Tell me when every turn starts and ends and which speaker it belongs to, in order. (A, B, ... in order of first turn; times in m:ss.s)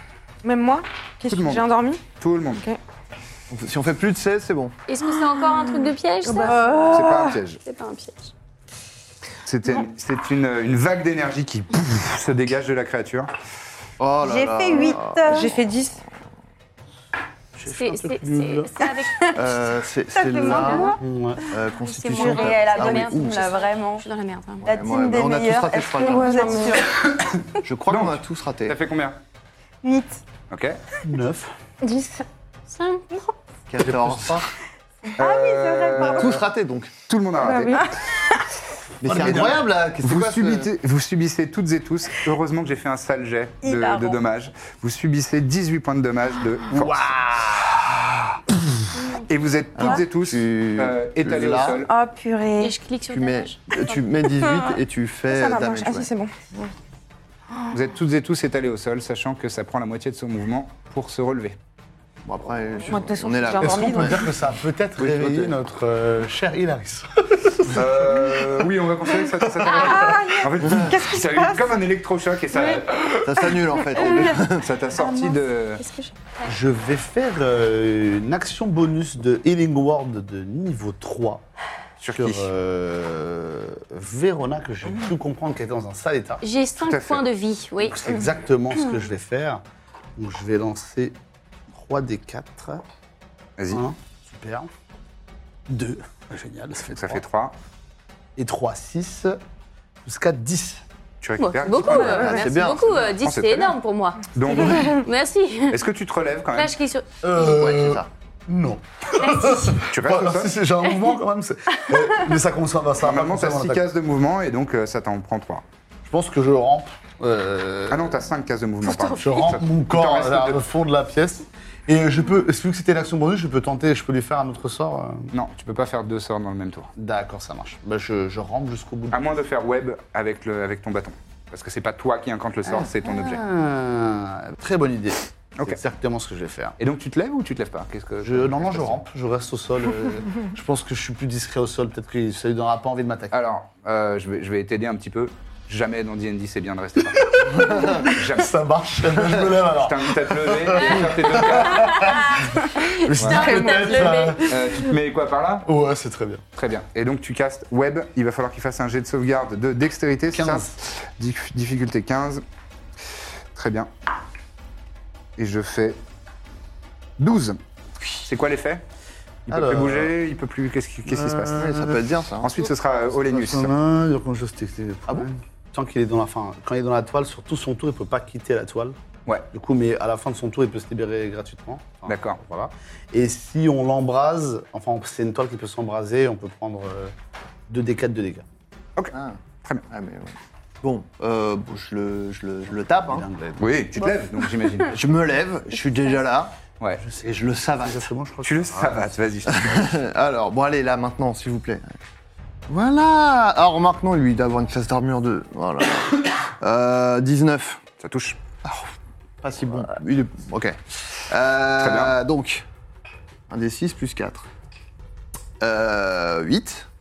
0:00.4-0:02.0 A
0:01.3-0:02.6 B
0:03.5-0:04.7 C
0:04.9-0:07.0 D
0:06.2-0:07.3 E
0:06.9-0:07.6 B
0:07.6-0:08.3 D
0:09.4-0:13.3 B
0:14.0-0:15.5 C
0:14.2-0:15.5 E
0:15.3-0:16.0 A
0:17.6-0:18.7 F
0:17.7-0:19.4 D
0:19.3-0:23.5 C
0:20.2-0:21.0 E
0:21.0-0:21.5 F
0:21.7-0:24.6 D
0:22.1-0:24.0 E
0:24.6-0:26.9 E
0:24.6-0:26.8 C
0:26.0-0:26.8 A
0:27.6-0:28.8 C
0:27.9-0:29.2 B
0:29.8-0:30.2 E
0:30.5-0:30.8 B
0:31.0-0:31.5 F
0:31.8-0:32.2 A
0:32.7-0:33.0 D
0:33.7-0:34.5 C
0:33.8-0:34.4 F
0:35.2-0:36.4 E
0:35.2-0:36.4 B
0:36.0-0:36.9 C
0:37.1-0:37.9 B
0:37.4-0:37.9 A
0:39.0-0:40.7 C
0:39.0-0:39.6 F
0:40.0-0:47.1 B
0:43.6-0:44.2 E
0:46.7-0:47.8 F
0:48.7-0:51.9 B
0:49.0-0:49.2 D
0:49.7-0:51.8 C
0:51.9-0:52.7 E
0:52.6-0:54.0 D
0:53.1-0:56.1 C
0:55.3-0:56.7 A
0:57.7-1:01.6 B
1:02.2-1:04.3 C
1:02.9-1:04.2 A
1:03.6-1:08.6 F
1:05.0-1:05.6 C
1:07.7-1:15.8 B
1:09.2-1:09.7 F
1:09.7-1:11.7 A
1:13.2-1:14.7 C
1:14.0-1:14.3 A
1:14.9-1:16.1 E
1:16.4-1:21.4 F
1:22.0-1:22.5 B
1:22.1-1:26.4 F
1:26.4-1:28.0 D
1:26.8-1:27.2 B
1:27.8-1:29.6 F
1:30.2-1:31.1 F
1:31.7-1:32.8 F
1:33.6-1:33.8 B
1:33.7-1:34.7 F
1:35.7-1:37.2 F
1:36.9-1:37.5 B
1:38.4-1:39.4 F
1:40.0-1:40.8 F
1:41.2-1:42.4 B
1:41.4-1:45.8 D
1:41.9-1:42.9 C
1:43.2-1:43.8 B
1:44.3-1:45.0 B
1:45.7-1:46.7 B
1:46.5-1:47.5 D
1:47.2-1:53.8 F
1:47.3-1:48.1 C
1:49.2-1:49.8 D
1:49.9-1:50.6 B
1:53.0-1:55.6 B
1:56.0-1:58.2 F
1:57.9-2:00.6 B
1:59.2-2:05.3 F
2:05.3-2:06.9 B
2:07.0-2:09.2 F
2:09.1-2:13.4 B
2:12.7-2:16.8 F
2:16.8-2:19.0 B
2:18.2-2:23.3 F
2:23.3-2:28.5 B
2:27.1-2:34.5 F
2:27.7-2:28.0 C
2:29.6-2:32.1 B
2:30.8-2:34.6 D
2:33.2-2:33.5 B
2:33.6-2:33.9 A
2:34.4-2:35.7 B
2:35.6-2:36.4 F
2:36.5-2:42.4 B
2:40.3-2:40.7 F
2:43.5-2:43.9 B
2:45.4-2:46.0 B
2:47.2-2:47.6 B
2:48.2-2:48.8 B
2:49.5-2:51.7 B
2:49.5-2:50.1 F
2:51.1-2:52.0 F
2:51.6-2:52.5 C
2:52.4-2:53.7 B
2:53.1-2:58.9 F
2:59.5-3:07.1 F
3:02.0-3:02.4 B
3:07.7-3:08.4 F
3:09.1-3:13.2 C
3:13.0-3:13.8 F
3:13.6-3:15.0 B
3:14.9-3:16.5 C
3:17.0-3:19.1 F
3:17.2-3:18.1 C
3:18.4-3:20.0 B
3:19.5-3:21.9 C
3:22.7-3:27.8 C
3:28.0-3:28.4 B
3:28.6-3:28.9 C
3:29.4-3:32.6 C
3:31.8-3:32.2 B
3:33.5-3:34.5 C
3:35.6-3:36.9 C